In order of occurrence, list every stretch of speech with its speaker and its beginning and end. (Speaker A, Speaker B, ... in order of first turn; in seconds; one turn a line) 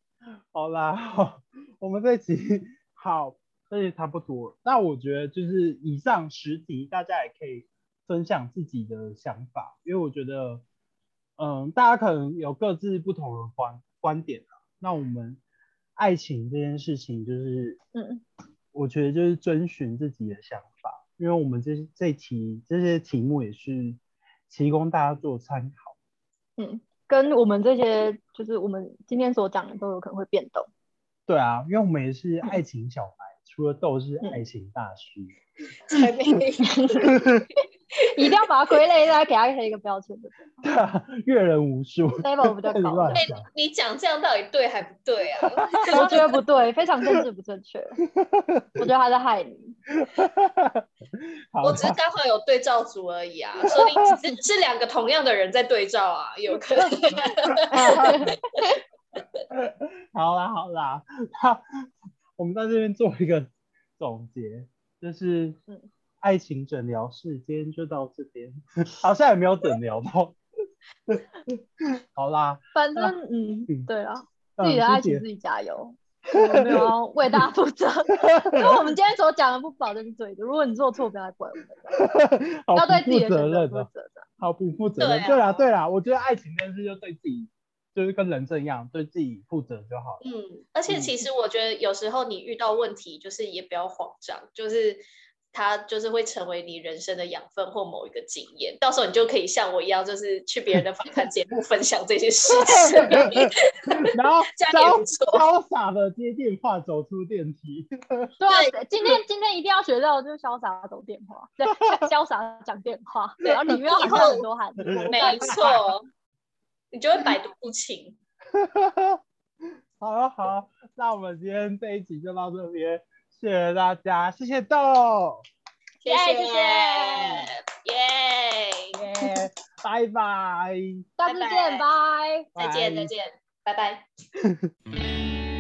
Speaker A: 0.5-10.6
Speaker A: 11.4-15.4
Speaker A: 16.0-17.8
Speaker B: 17.9-18.2
Speaker A: 18.7-25.9
Speaker B: 26.6-30.7
Speaker A: 31.3-35.4
Speaker C: 35.9-37.3
Speaker B: 36.7-37.1
Speaker A: 37.0-37.5
Speaker B: 38.1-40.4
Speaker A: 40.6-43.4
Speaker B: 42.2-43.2
Speaker C: 43.1-46.2
Speaker A: 45.8-46.2
Speaker B: 45.9-48.0
Speaker A: 48.2-48.8
Speaker B: 48.8-49.8
Speaker A: 50.0-52.0
Speaker C: 51.6-58.0
Speaker A: 53.6-54.2
Speaker A: 57.6-58.4
Speaker B: 57.8-58.7
Speaker A: 59.5-61.6
Speaker A: 62.4-65.6
Speaker A: 66.2-70.4
Speaker A: 71.1-71.6
Speaker A: 72.2-73.1
Speaker B: 72.8-81.8
Speaker A: 74.6-75.2
Speaker A: 76.5-77.4
Speaker A: 78.1-78.9
Speaker A: 81.9-83.9
Speaker B: 82.7-84.3
Speaker A: 84.4-90.2
Speaker C: 85.0-85.6
Speaker C: 90.2-104.0
Speaker A: 90.9-91.2
Speaker A: 102.6-108.3
Speaker C: 104.5-105.5
Speaker B: 108.4-115.7
Speaker C: 108.5-108.7
Speaker C: 113.7-114.4
Speaker A: 114.8-115.8
Speaker C: 115.1-116.1
Speaker C: 116.9-118.2
Speaker A: 118.5-119.2
Speaker A: 120.0-125.4
Speaker C: 126.0-128.9
Speaker B: 126.0-127.4
Speaker A: 128.9-131.0
Speaker B: 131.2-132.5
Speaker C: 131.2-131.9
Speaker C: 132.6-134.1
Speaker A: 132.6-133.1